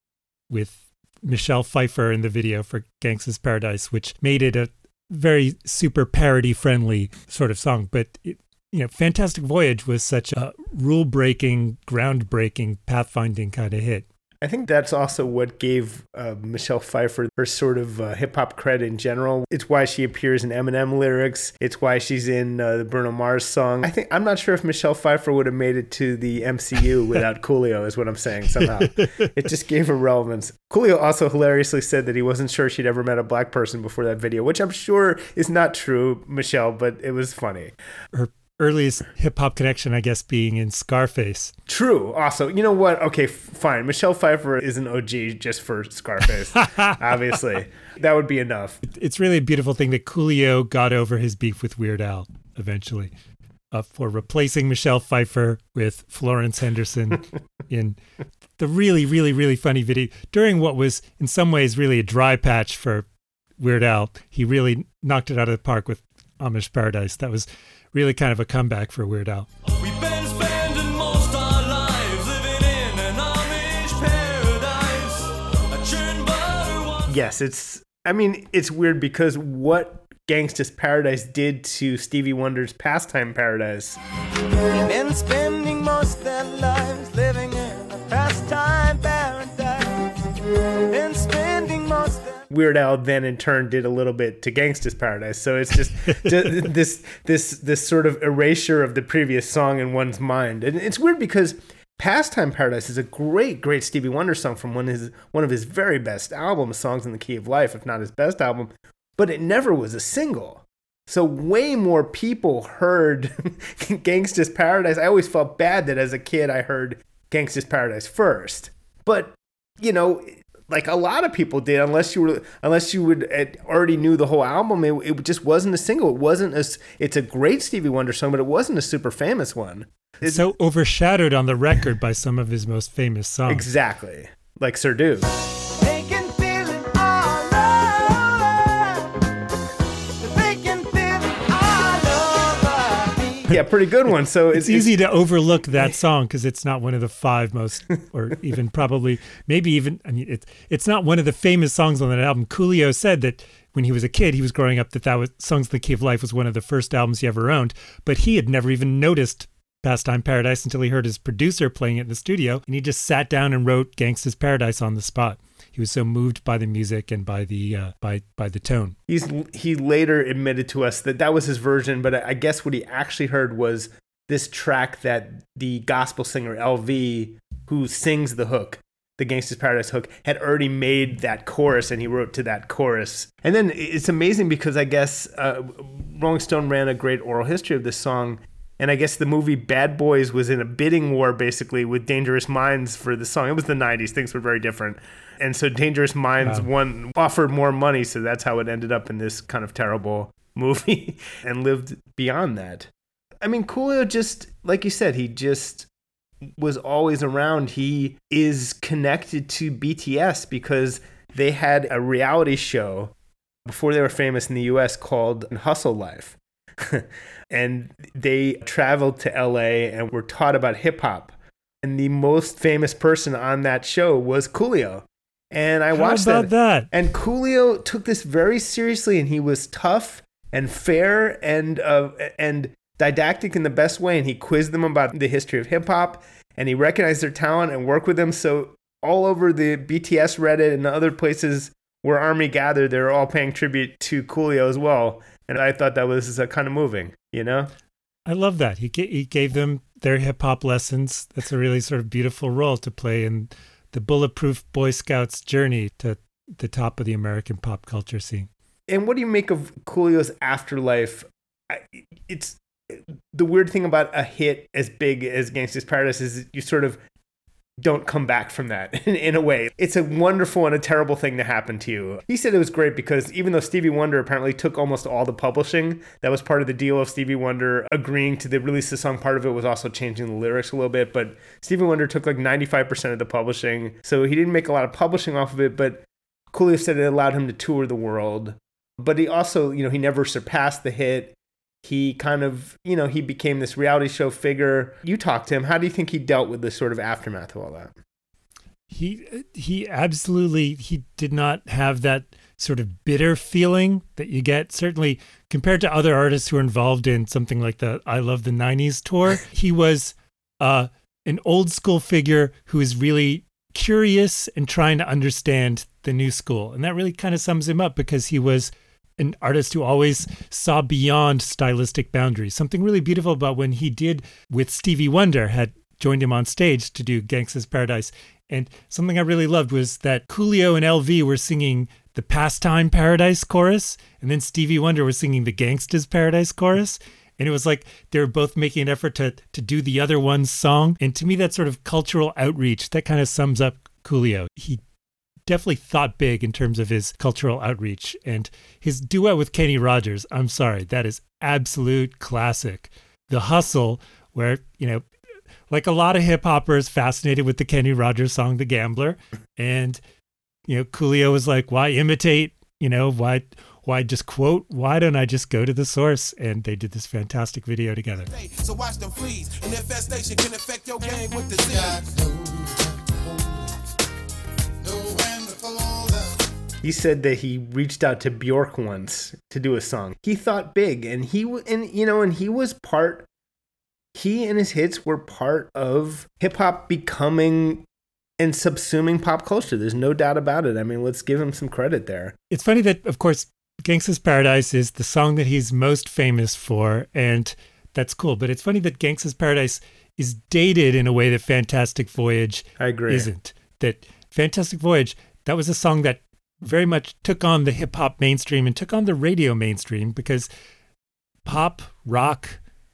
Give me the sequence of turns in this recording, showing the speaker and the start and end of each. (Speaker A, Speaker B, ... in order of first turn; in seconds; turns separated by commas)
Speaker A: 0.5-14.1, Speaker B: 14.4-37.7, Speaker A: 38.1-41.5, Speaker B: 41.7-48.8, Speaker A: 48.9-53.1, Speaker A: 53.7-58.0, Speaker A: 58.6-63.1, Speaker A: 63.6-69.5, Speaker C: 69.9-75.1, Speaker C: 75.8-76.5, Speaker B: 77.1-84.0, Speaker C: 84.7-90.1, Speaker C: 90.9-92.4, Speaker B: 92.5-130.5, Speaker A: 130.2-133.7, Speaker B: 133.5-135.3, Speaker C: 135.8-139.1, Speaker C: 140.2-143.4, Speaker B: 143.5-145.0, Speaker A: 144.5-168.9, Speaker B: 169.1-202.9, Speaker A: 196.4-196.7, Speaker B: 203.4-205.9, Speaker B: 206.4-213.1, Speaker B: 213.7-247.7, Speaker A: 225.9-226.9, Speaker A: 248.2-258.5, Speaker B: 258.9-267.0, Speaker B: 267.8-297.9, Speaker A: 298.9-344.8, Speaker A: 345.5-355.0, Speaker A: 355.7-360.0, Speaker A: 360.7-368.3, Speaker D: 368.2-372.2, Speaker B: 376.8-383.2, Speaker B: 384.1-387.8, Speaker B: 388.4-392.4, Speaker A: 392.5-410.5, Speaker B: 402.8-403.3, Speaker A: 411.4-412.6